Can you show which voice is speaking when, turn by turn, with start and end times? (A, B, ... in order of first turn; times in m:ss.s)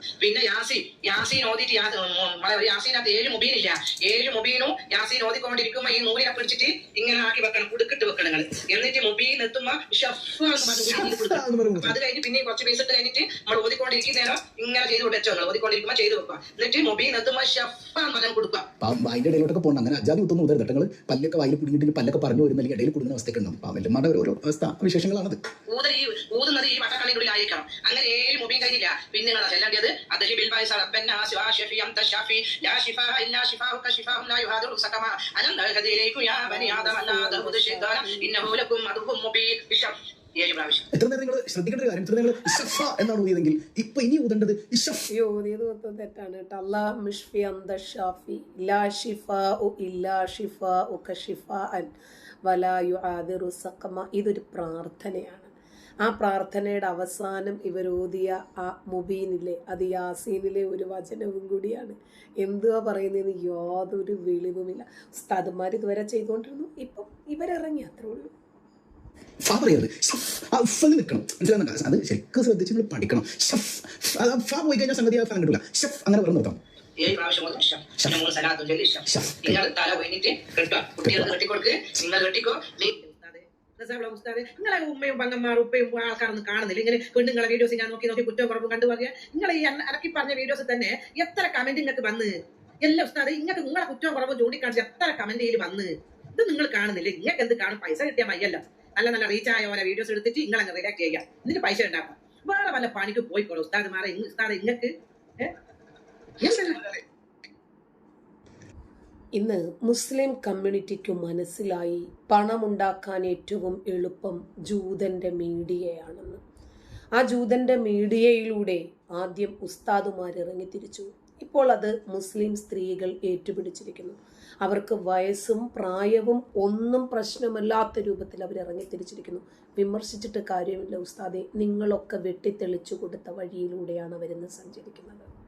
0:00.2-0:18.7 A
0:10.7-0:12.0 B
0:18.8-0:25.4 B
0:25.7-0:40.8 A
0:36.5-0:38.3 C
0:40.9-0:45.1 B
0:45.1-0:51.9 C
0:52.4-1:08.3 C
1:09.4-1:16.6 B
1:17.0-1:45.5 A
1:19.1-1:19.6 B
1:21.0-1:21.4 B
1:46.4-1:46.9 A
1:49.4-1:56.4 C
1:57.2-2:15.3 C